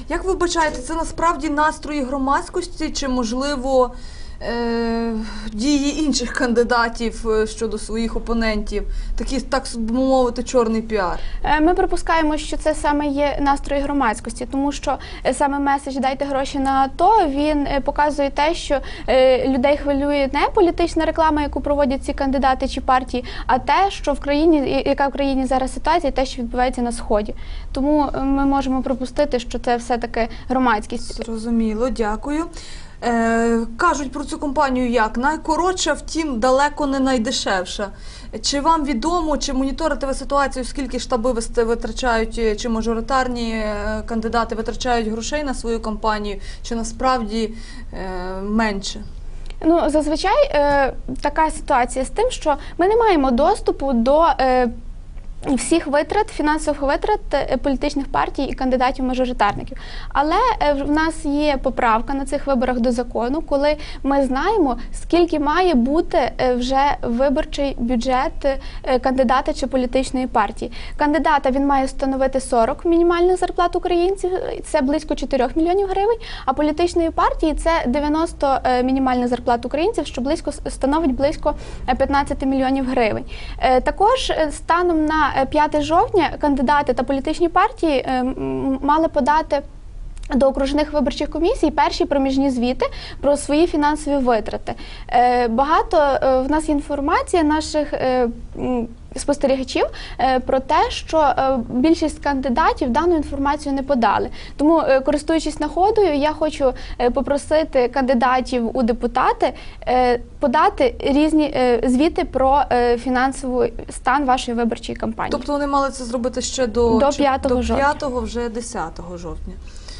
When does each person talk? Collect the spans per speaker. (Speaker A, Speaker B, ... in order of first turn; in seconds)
Speaker A: 0.1-11.2, 31.1-32.5, 33.0-49.0, 115.3-119.6
Speaker B: 11.4-31.2, 49.6-54.7, 55.5-89.6, 90.3-115.5, 116.9-117.9